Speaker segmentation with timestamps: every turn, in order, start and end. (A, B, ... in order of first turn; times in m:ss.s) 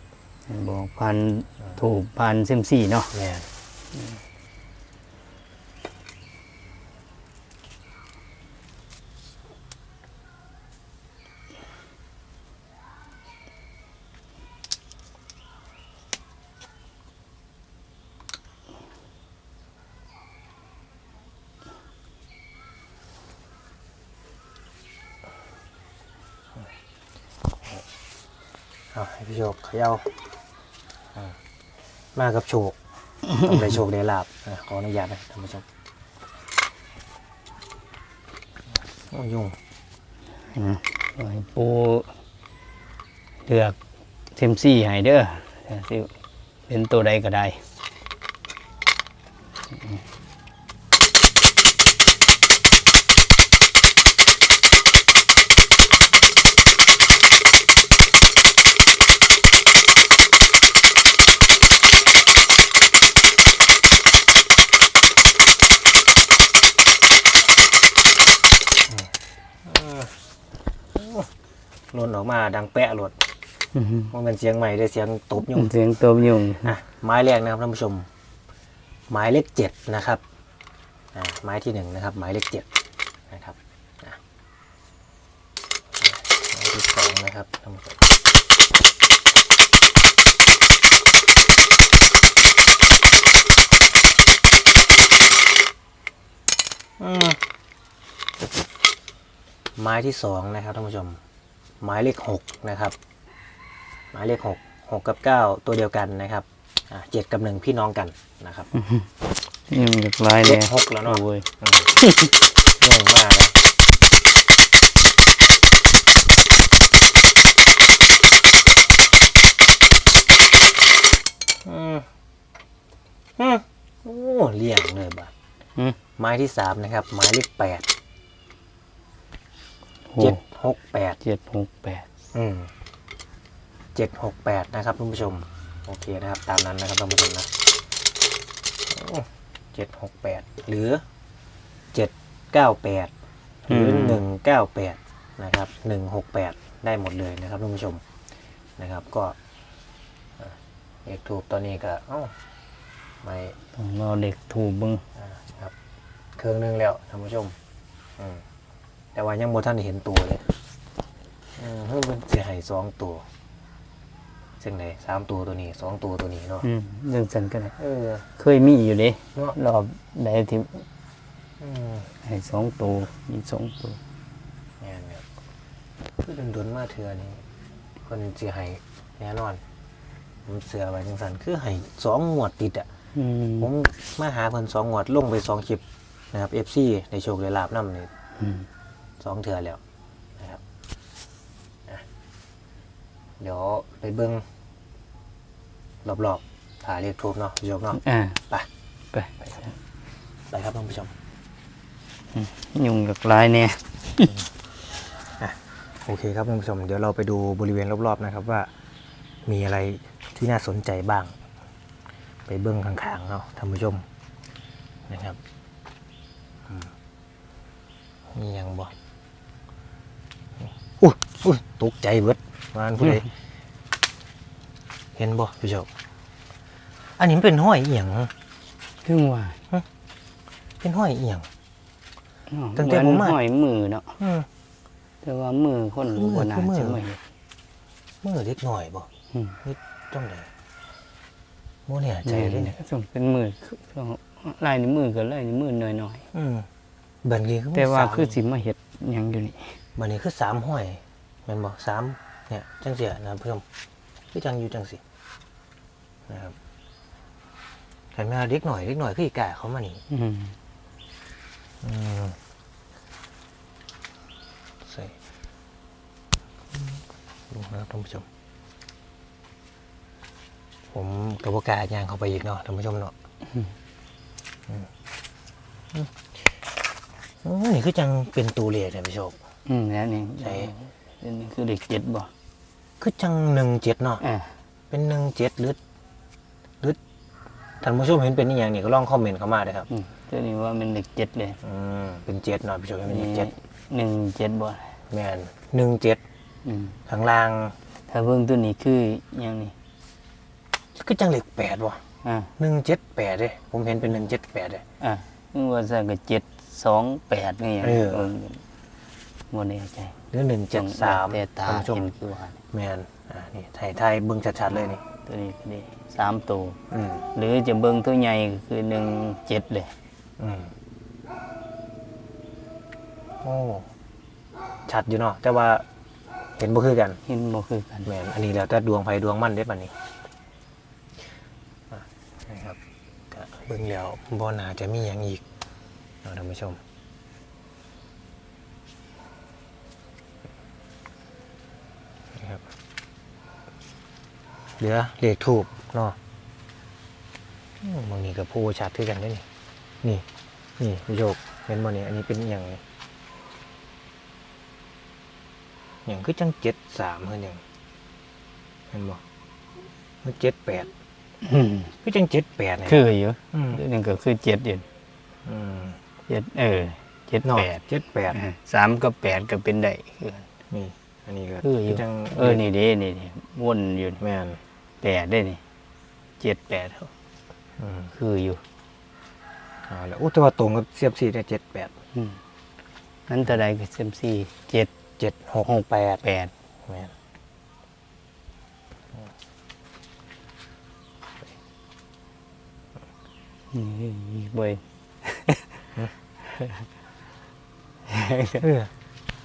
0:00.5-0:03.1 A
0:03.1-0:03.5 B
0:28.9-0:30.1 B
0:32.1-0:32.7 B
0:33.3-0:35.6 B
0:39.1-0:39.6 B
0:40.5-0:42.1 A
0:43.4-0:43.8 A
0:44.3-0:46.1 A
0:46.7-0:47.6 A
1:09.6-1:10.1 B
1:10.9-1:11.3 B
1:11.9-1:13.1 B
1:13.7-1:14.1 A
1:14.1-1:15.7 B
1:15.4-1:16.7 A
1:16.6-1:18.1 B
1:19.1-1:20.2 B
1:21.1-1:22.7 B
1:23.3-1:24.2 B
1:26.0-1:28.0 B
1:37.0-1:37.4 B
1:39.8-1:41.2 B
1:41.8-1:42.9 B
1:44.1-1:48.7 B
1:48.8-1:49.1 A
1:49.7-1:51.5 A
1:50.4-1:51.9 B
1:52.0-1:52.3 A
1:52.8-1:53.5 B
2:01.6-2:02.0 B
2:03.4-2:05.3 B
2:06.2-2:07.8 B
2:10.1-2:10.4 A
2:10.2-2:11.2 B
2:11.2-2:12.1 A
2:12.3-2:12.7 B
2:13.9-2:17.5 B
2:18.9-2:21.0 B
2:21.9-2:23.1 B
2:23.7-2:28.0 B
2:23.7-2:24.2 A
2:28.8-2:29.4 B
2:30.4-2:32.3 B
2:33.2-2:33.6 B
2:33.7-2:35.0 A
2:35.2-2:35.7 B
2:36.4-2:37.6 B
2:38.2-2:38.4 B
2:39.1-2:40.5 B
2:41.6-2:43.2 B
2:44.6-2:46.7 B
2:46.6-2:47.7 A
2:47.8-2:48.3 B
2:48.4-2:50.8 A
2:51.6-2:52.1 B
2:52.2-2:54.0 A
2:54.8-2:55.2 B
2:56.2-2:57.4 B
2:58.0-2:59.6 B
3:00.4-3:02.9 B
3:03.1-3:03.7 A
3:03.6-3:08.1 B
3:08.4-3:08.6 A
3:09.2-3:09.8 B
3:13.4-3:14.4 B
3:16.0-3:18.7 B
3:18.0-3:18.4 A
3:19.1-3:19.7 A
3:20.5-3:21.1 B
3:22.3-3:24.3 A
3:25.4-3:28.7 B
3:29.4-3:31.3 B
3:32.5-3:34.0 B
3:35.1-3:35.4 B
3:36.7-3:36.9 B
3:38.3-3:38.9 B
3:41.0-3:43.3 B
3:45.2-3:45.9 B
3:47.2-3:48.3 B
3:49.0-3:49.6 A
3:50.8-3:51.5 B
3:52.5-3:54.2 A
3:52.7-3:53.4 B
3:54.2-3:54.5 B
3:55.2-3:57.2 A
3:56.1-3:57.0 B
3:58.2-3:59.1 B
3:59.6-4:00.5 B
4:01.9-4:02.8 B
4:02.2-4:06.3 A
4:06.3-4:06.7 B
4:07.2-4:08.4 B
4:07.7-4:09.8 A
4:10.0-4:13.6 B
4:14.3-4:15.0 B
4:16.3-4:16.5 B
4:18.1-4:20.0 B
4:20.1-4:20.6 A
4:21.8-4:22.4 B
4:24.8-4:25.1 B
4:26.7-4:28.2 B
4:30.9-4:33.1 B
4:35.9-4:36.2 B
4:37.4-4:39.4 B
4:39.6-4:42.3 A
4:40.4-4:40.7 B
4:43.0-4:44.2 B
4:44.2-4:44.6 A
4:44.9-4:45.8 B
4:47.8-4:49.9 B
4:49.9-4:51.6 A
4:51.6-4:53.5 B
4:53.1-4:55.0 A
4:55.1-4:56.2 B
4:56.6-4:57.0 A
4:57.1-4:57.7 B
4:58.1-4:59.7 A
5:00.9-5:02.0 B
5:02.2-5:02.5 A
5:02.6-5:04.8 B
5:05.0-5:08.6 A
5:07.8-5:08.3 B
5:09.5-5:10.2 A
5:10.3-5:12.1 B
5:10.7-5:12.6 A
5:12.7-5:15.0 B
5:15.2-5:16.8 A
5:16.9-5:17.2 B
5:17.3-5:19.9 A
5:20.4-5:20.7 B
5:23.4-5:23.8 B
5:24.9-5:25.8 B
5:26.6-5:27.2 B
5:27.2-5:28.1 A
5:28.0-5:29.9 B
5:31.9-5:32.8 B
5:33.3-5:35.4 B
5:36.2-5:36.8 B
5:42.4-5:42.6 B
5:44.8-5:46.2 B
5:47.8-5:49.4 B
5:50.8-5:52.8 B
5:56.0-5:57.6 B
5:58.9-5:59.2 B
6:00.2-6:00.9 B
6:01.4-6:01.9 A
6:02.0-6:03.0 B
6:02.8-6:04.8 A
6:03.5-6:03.8 B
6:05.4-6:06.0 B
6:06.3-6:10.5 A
6:07.4-6:08.4 B
6:10.7-6:12.6 B
6:11.6-6:14.2 A
6:14.2-6:14.6 B
6:15.0-6:15.6 A
6:16.4-6:17.1 A
6:17.8-6:18.1 B
6:18.1-6:18.6 A
6:19.9-6:21.9 B
6:23.3-6:24.9 A
6:25.2-6:26.2 B
6:25.6-6:26.5 A
6:26.9-6:27.1 B
6:33.7-6:35.7 A
6:36.4-6:36.8 A
6:38.1-6:38.6 A
6:38.6-6:38.9 B